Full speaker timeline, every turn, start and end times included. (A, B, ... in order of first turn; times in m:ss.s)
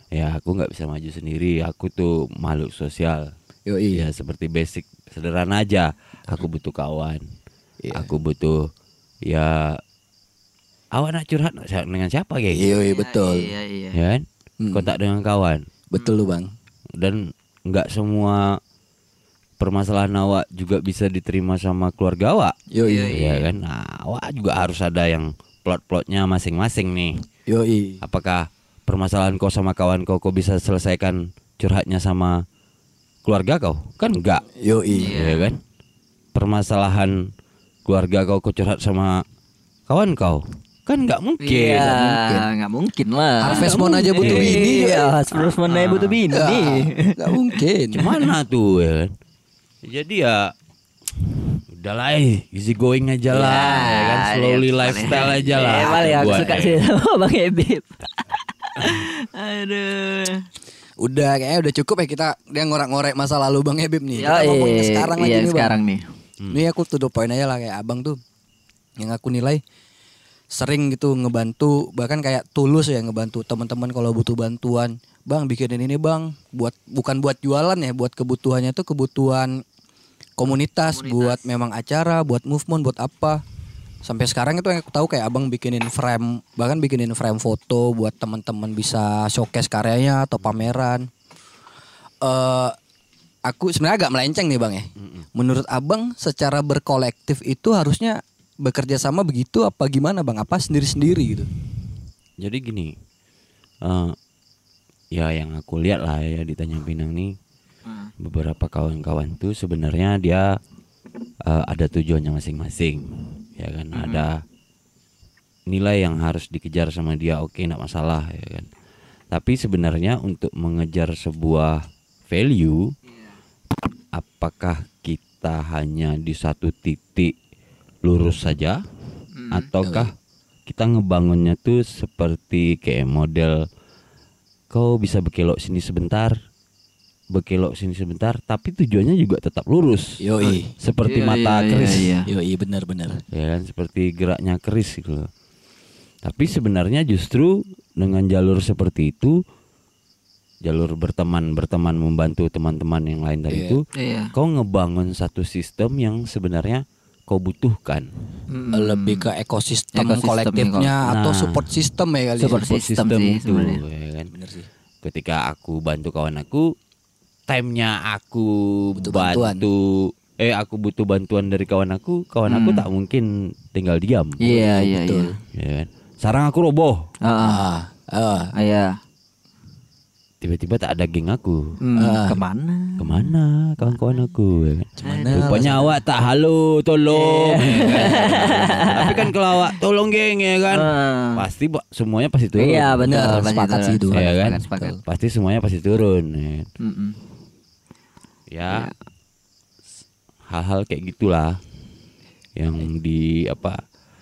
0:00.1-0:03.3 A
0:03.7-0:04.1 B
0:03.9-0:07.2 A
0:07.8-0:08.1 B
0:07.9-0:08.7 A
0:09.2-0:09.8 A
0:10.9-0:12.7 A
0:12.5-0:13.5 B
0:12.8-0:14.0 C
0:13.9-0:15.6 A
0:14.6-0:14.9 B
0:15.9-0:16.5 B
0:16.0-0:16.2 C
0:17.0-0:18.6 A
0:19.6-0:22.6 A
0:22.7-0:23.2 B
0:22.8-0:23.5 C
0:23.1-0:27.2 A
0:27.5-0:28.0 B
0:28.0-0:32.4 A
0:33.2-0:34.4 A
0:34.5-0:35.2 B
0:34.9-0:35.5 C
0:35.1-0:35.6 A
0:36.3-0:37.3 A
0:37.8-0:39.2 A
0:39.9-0:42.1 A
0:41.4-0:47.6 C
0:41.9-0:42.4 B
0:43.4-0:45.1 B
0:43.4-0:44.7 A
0:45.6-0:46.2 A
0:46.3-0:48.1 B
0:47.9-0:49.1 A
0:49.8-0:50.5 A
0:51.2-0:56.8 A
0:53.3-0:57.9 C
0:58.6-1:00.4 C
1:01.0-1:05.7 B
1:04.2-1:06.0 C
1:06.5-1:08.2 B
1:09.0-1:09.6 B
1:10.5-1:19.6 B
1:20.4-1:23.4 B
1:20.9-1:21.5 C
1:24.0-1:31.1 B
1:32.2-1:32.7 B
1:33.5-1:41.5 B
1:35.0-1:35.2 A
1:42.4-1:42.9 A
1:43.8-1:44.2 A
1:45.1-1:47.4 A
1:48.2-1:50.5 A
1:51.4-1:54.4 A
1:53.9-1:54.2 C
1:55.7-1:58.7 A
1:59.3-2:02.9 A
2:04.1-2:07.3 A
2:08.0-2:08.8 A
2:09.3-2:09.7 C
2:09.5-2:10.1 A
2:09.8-2:10.1 B
2:10.7-2:13.6 A
2:14.7-2:16.4 A
2:17.3-2:20.2 A
2:20.2-2:20.7 B
2:20.8-2:22.1 A
2:21.0-2:22.3 C
2:22.3-2:23.2 B
2:23.3-2:25.3 A
2:26.2-2:29.4 A
2:30.6-2:33.8 A
2:33.5-2:33.8 B
2:33.9-2:34.3 C
2:34.3-2:38.1 A
2:38.5-2:39.3 C
2:38.7-2:42.7 B
2:39.9-2:40.9 C
2:41.0-2:41.7 A
2:42.4-2:43.8 C
2:42.5-2:44.3 A
2:44.3-2:44.7 B
2:45.0-2:46.7 A
2:47.5-2:54.4 A
2:49.0-2:49.6 B
2:52.5-2:52.8 C
2:54.4-2:55.4 C
2:54.4-2:55.3 B
2:55.5-2:57.0 A
2:57.2-2:57.6 C
2:57.4-2:58.5 B
2:58.5-2:58.9 C
3:00.4-3:01.8 A
3:01.8-3:03.3 C
3:02.0-3:02.4 B
3:03.0-3:13.3 A
3:05.0-3:05.9 B
3:05.0-3:05.8 C
3:07.1-3:09.7 C
3:10.7-3:11.4 C
3:12.6-3:15.0 C
3:13.0-3:14.2 B
3:14.1-3:16.7 A
3:16.8-3:17.2 C
3:18.5-3:18.9 A
3:18.7-3:18.9 C
3:20.5-3:21.6 A
3:22.6-3:23.8 A